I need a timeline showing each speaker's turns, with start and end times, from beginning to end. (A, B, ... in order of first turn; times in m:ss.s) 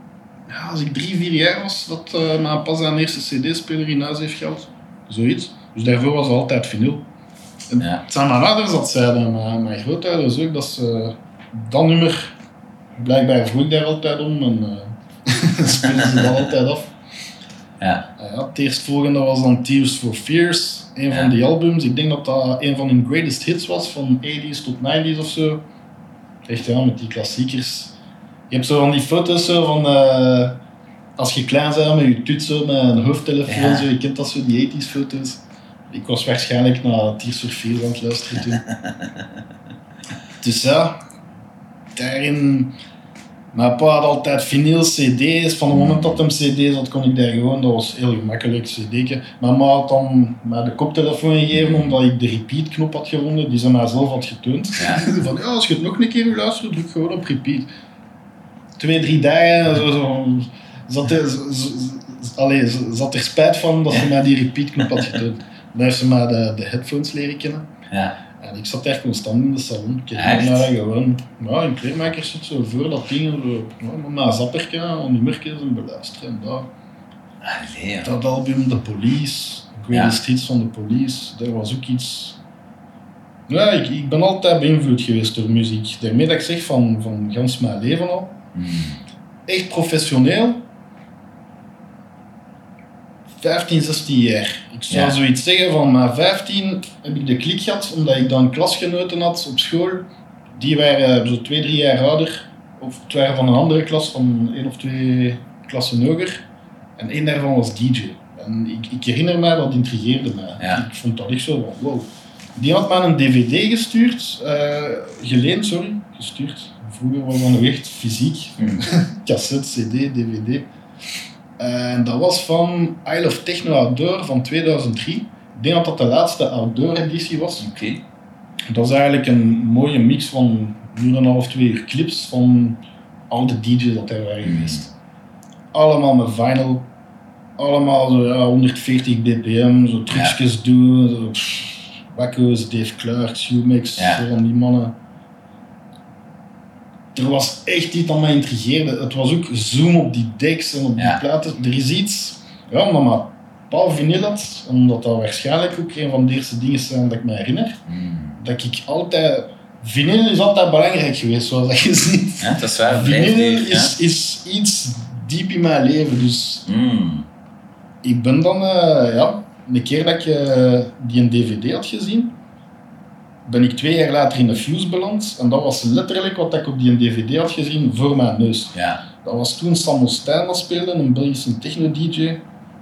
0:00.5-0:07.1 A
0:07.7-0:12.3 A
0:13.0-0:16.9 A
0:17.8-0:18.1 B
0:18.2-0:25.6 A
0:26.5-0:28.0 A
0:28.5-0:30.6 A
0:31.2-0:38.6 A
0:33.5-0:33.9 B
0:38.7-0:39.1 B
0:40.4-0:41.0 A
0:42.0-0:42.8 A
0:43.5-0:57.7 A
0:45.7-0:46.2 B
0:51.5-0:52.0 B
0:54.8-0:55.1 B
0:58.8-1:07.7 A
1:07.9-1:08.2 B
1:08.4-1:16.7 A
1:10.1-1:10.7 B
1:17.4-1:18.1 B
1:18.0-1:22.4 A
1:19.9-1:20.2 B
1:23.5-1:28.4 A
1:28.5-1:29.0 B
1:29.5-1:30.6 A
1:33.4-1:46.5 A
1:34.9-1:35.2 B
1:47.0-2:00.7 A
2:01.6-2:07.7 A
2:07.6-2:08.0 B
2:08.7-2:14.9 A
2:14.4-2:14.8 B
2:15.7-2:16.9 A
2:17.6-2:25.0 A
2:20.1-2:20.4 B
2:24.0-2:24.2 B
2:27.1-2:37.8 A
2:31.0-2:31.2 B
2:37.9-2:38.4 B
2:38.4-2:46.6 A
2:42.4-2:44.0 B
2:46.7-2:47.3 B
2:48.0-2:52.4 A
2:53.5-3:02.4 A
2:58.7-2:59.0 B